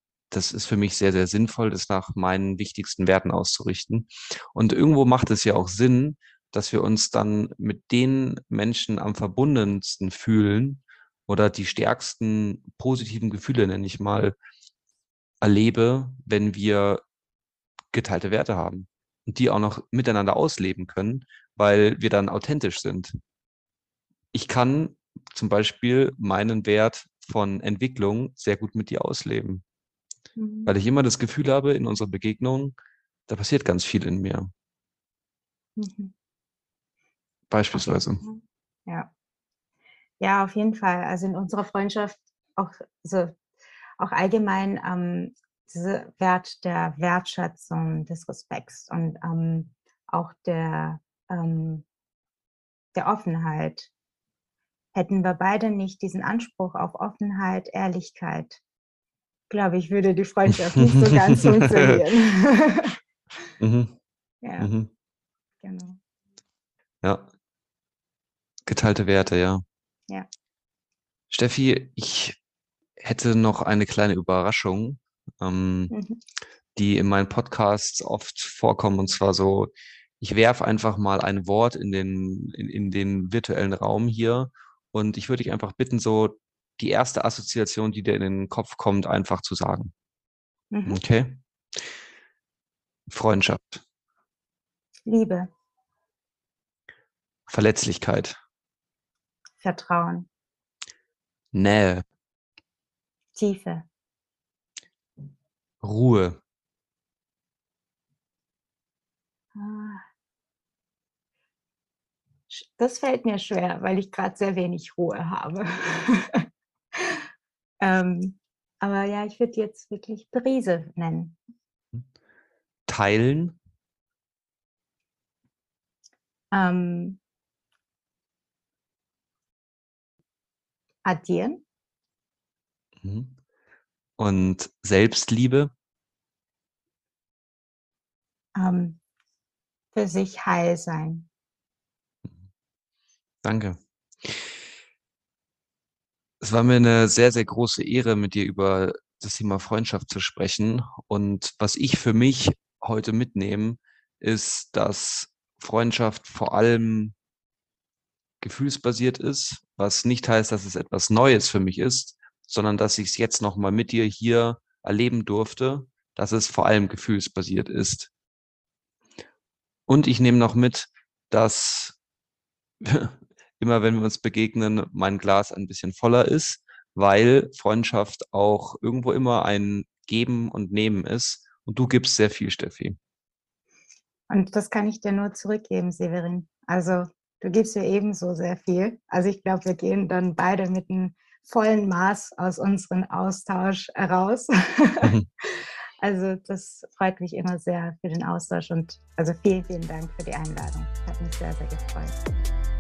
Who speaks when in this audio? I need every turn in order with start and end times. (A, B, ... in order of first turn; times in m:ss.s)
0:00.3-0:14.3 A
0:15.4-0:17.0 A
0:17.9-0:23.2 A
0:24.3-0:29.6 A
0:30.4-0:30.7 B
0:30.6-0:32.7 A
0:33.3-0:34.5 A
0:35.8-0:36.1 B
0:37.5-0:38.2 A
0:37.7-0:39.1 B
0:40.2-0:43.4 B
0:44.0-0:51.8 B
0:52.9-0:53.9 B
0:54.9-0:58.6 B
0:59.5-1:03.0 B
1:00.7-1:02.0 A
1:03.6-1:04.0 A
1:04.4-1:04.7 B
1:04.6-1:04.9 A
1:05.6-1:06.0 B
1:07.0-1:07.3 A
1:08.6-1:09.6 A
1:11.3-1:12.4 A
1:13.0-1:15.9 A
1:15.9-1:16.2 B
1:16.7-1:29.9 A
1:30.7-1:31.0 B
1:30.8-1:31.8 A
1:33.1-1:33.8 A
1:35.1-1:35.5 B
1:37.5-1:38.4 A
1:39.6-1:40.3 B
1:41.5-1:42.0 A
1:43.4-1:43.8 B
1:45.8-1:46.4 A
1:49.5-1:50.0 B
1:52.5-1:57.2 B
1:57.8-2:01.4 B
2:02.9-2:03.6 A
2:06.5-2:07.2 B
2:11.0-2:11.6 B
2:13.0-2:13.4 A
2:14.2-2:15.7 A
2:18.6-2:19.0 B
2:19.9-2:21.3 B
2:23.4-2:24.6 A
2:26.4-2:37.1 A
2:38.4-2:48.1 A
2:49.9-2:52.0 A
2:52.8-3:03.0 A
3:04.3-3:22.2 B